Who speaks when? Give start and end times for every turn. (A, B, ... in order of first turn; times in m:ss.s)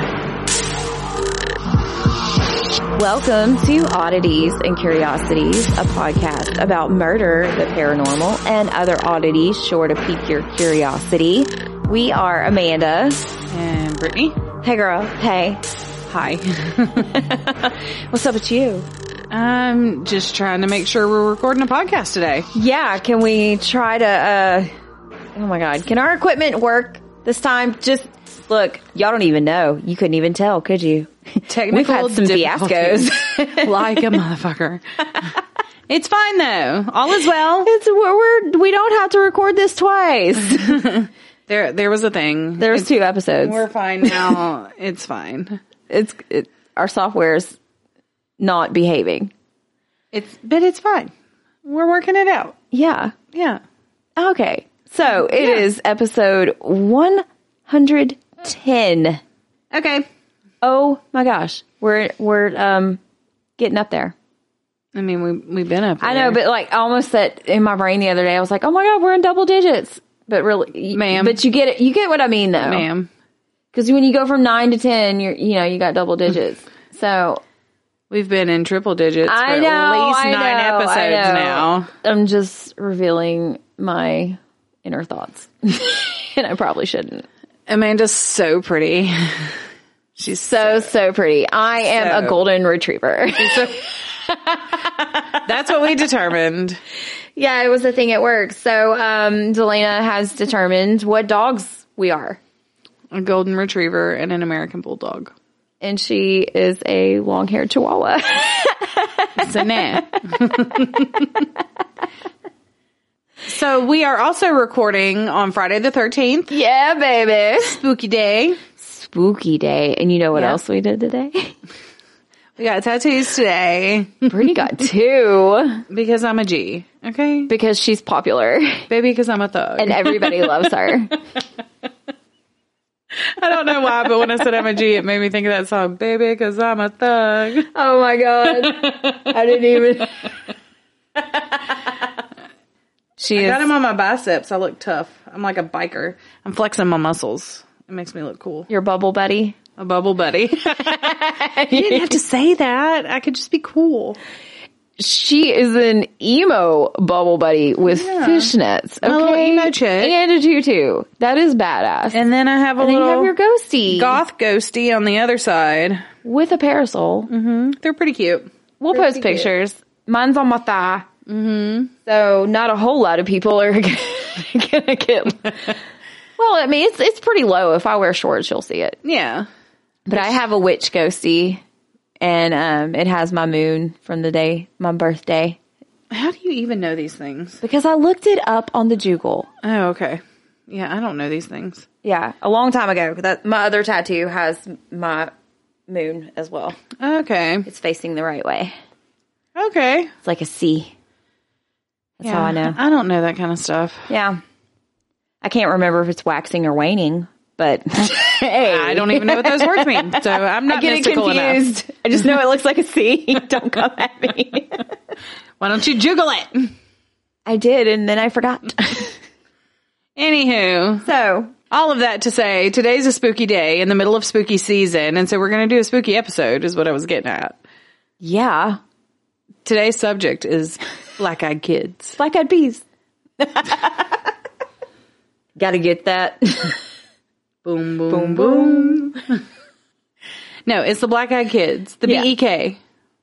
0:02.9-0:13.4 A
0:13.5-0:14.4 B
0:14.6-0:15.6 A
0:16.1-0:17.1 B
0:17.0-0:18.9 A
0:19.3-0:22.5 B
0:22.5-0:24.7 A
0:25.4-0:34.2 A
0:31.5-0:35.4 B
0:35.9-0:37.7 B
0:37.6-0:40.8 A
0:40.6-0:45.6 B
0:42.6-0:44.3 A
0:45.9-0:47.6 A
0:48.4-0:49.3 A
0:50.1-0:51.1 B
0:51.6-0:52.6 B
0:52.7-0:53.1 A
0:53.3-0:53.6 B
0:54.2-0:59.2 A
0:59.7-1:00.1 B
1:00.6-1:03.0 A
1:03.6-1:04.2 A
1:05.0-1:06.4 B
1:06.0-1:12.9 A
1:10.9-1:11.4 B
1:12.6-1:13.1 B
1:13.7-1:17.4 A
1:18.1-1:21.9 B
1:19.3-1:27.3 A
1:27.7-1:29.6 B
1:30.2-1:30.9 B
1:30.5-1:35.4 A
1:31.8-1:32.4 B
1:33.4-1:33.8 B
1:35.3-1:36.8 B
1:37.4-1:42.4 A
1:43.1-1:45.3 B
1:45.8-1:51.2 A
1:49.4-1:51.4 B
1:53.5-1:56.6 B
1:56.5-1:57.8 A
1:57.6-1:58.6 B
1:58.8-2:01.6 A
2:02.6-2:04.5 B
2:04.3-2:05.8 A
2:05.9-2:07.5 B
2:07.5-2:08.9 A
2:08.9-2:10.5 B
2:09.8-2:11.2 A
2:13.4-2:17.7 B
2:17.7-2:20.3 A
2:23.2-2:23.6 A
2:23.2-2:28.7 B
2:28.7-2:29.6 A
2:29.8-2:34.2 B
2:30.8-2:32.2 A
2:35.0-2:42.2 A
2:37.9-2:40.1 B
2:42.1-2:43.3 B
2:42.8-2:44.2 A
2:43.9-2:46.1 B
2:46.2-2:47.3 A
2:47.3-2:49.5 B
2:48.8-2:51.1 A
2:51.3-2:51.9 B
2:52.1-2:55.8 A
2:56.4-2:59.0 A
2:59.0-2:59.5 B
3:00.1-3:01.6 A
3:02.2-3:05.6 A
3:06.1-3:07.6 B
3:07.6-3:09.5 A
3:09.6-3:11.9 B
3:12.0-3:15.3 A
3:15.9-3:16.8 A
3:17.0-3:17.7 B
3:17.7-3:18.7 A
3:19.6-3:20.1 B
3:20.2-3:20.9 A
3:22.2-3:22.8 A
3:22.2-3:24.1 B
3:24.1-3:24.4 A
3:25.4-3:34.9 A
3:28.6-3:31.6 B
3:35.6-3:36.7 B
3:37.5-3:39.2 A
3:40.2-3:41.1 B
3:41.0-3:41.5 A
3:41.7-3:47.6 B
3:48.2-3:48.8 A
3:49.6-3:52.2 B
3:52.2-3:52.8 A
3:53.4-3:54.3 A
3:55.6-3:56.8 A
3:57.6-3:59.4 B
3:58.1-3:59.2 A
4:00.7-4:02.8 B
4:02.0-4:02.3 A